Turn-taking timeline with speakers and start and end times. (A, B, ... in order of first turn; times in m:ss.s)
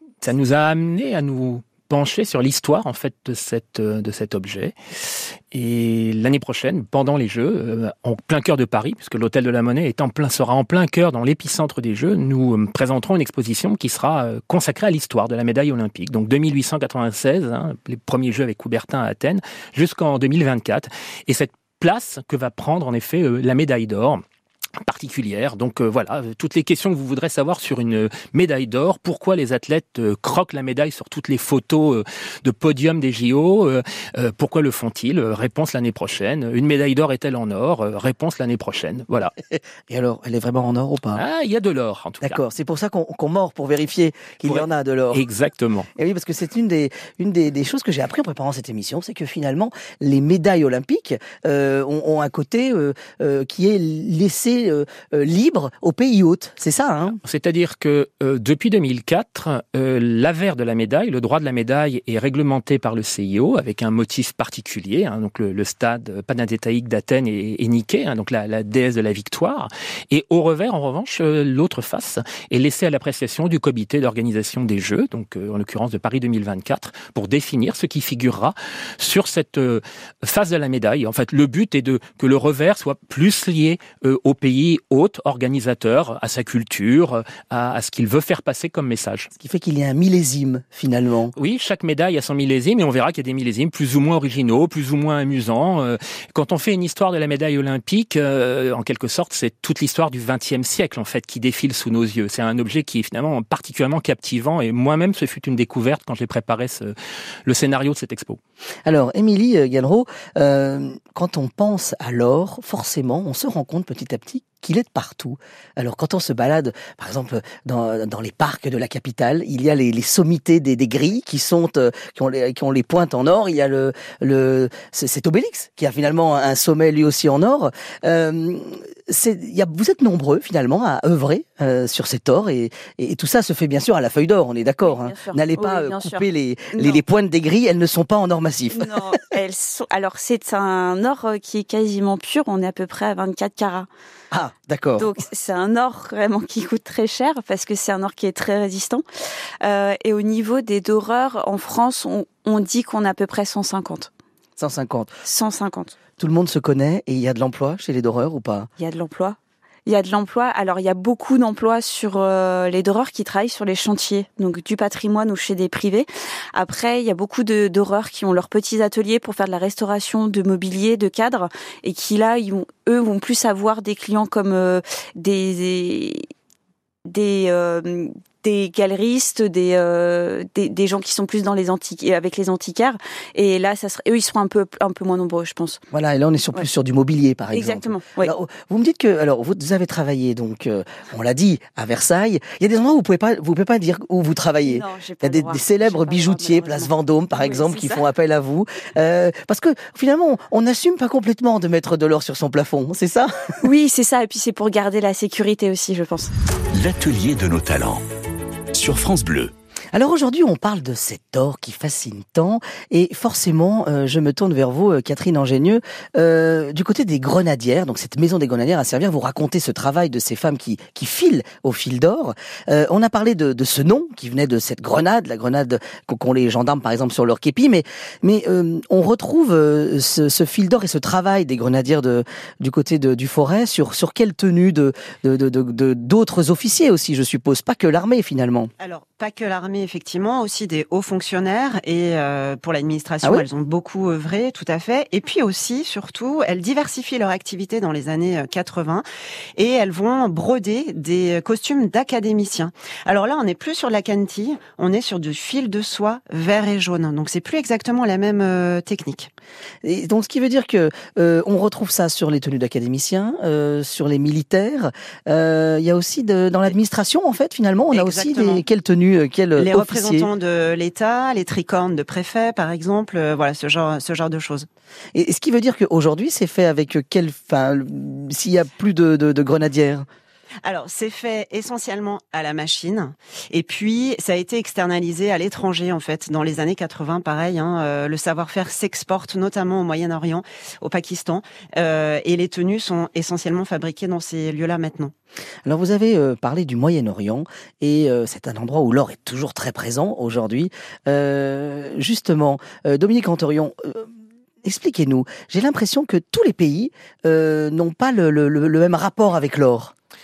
0:00.2-0:24.2 A
0:24.8-0:39.3 A
0:39.9-0:41.2 B
0:41.2-0:42.4 A
0:42.2-0:45.2 B
0:44.4-0:45.9 A
0:46.0-0:57.2 B
0:57.2-1:29.3 A
1:29.4-1:31.3 B
1:31.4-1:46.9 A
1:47.4-1:48.4 A
1:48.8-2:19.0 B
2:14.8-2:17.0 C
2:18.7-2:23.9 C
2:24.3-2:25.1 B
2:25.0-2:29.0 C
2:29.6-2:34.1 C
2:34.6-2:35.2 B
2:35.2-2:35.9 C
2:36.2-2:38.7 B
2:38.8-2:56.3 C
2:57.0-3:05.8 C
3:05.9-3:23.6 B
3:07.5-3:08.3 C
3:14.6-3:18.0 C
3:23.6-3:26.3 C
3:26.7-3:28.0 D
3:28.7-3:29.5 D
3:29.9-3:58.7 B
3:58.8-4:09.0 E
4:09.6-4:19.3 E
4:19.8-4:30.3 B
4:27.9-4:28.6 E
4:29.6-4:34.7 E
4:35.1-4:40.0 B
4:40.6-4:55.1 E
4:55.6-5:04.1 B
5:04.6-5:09.9 B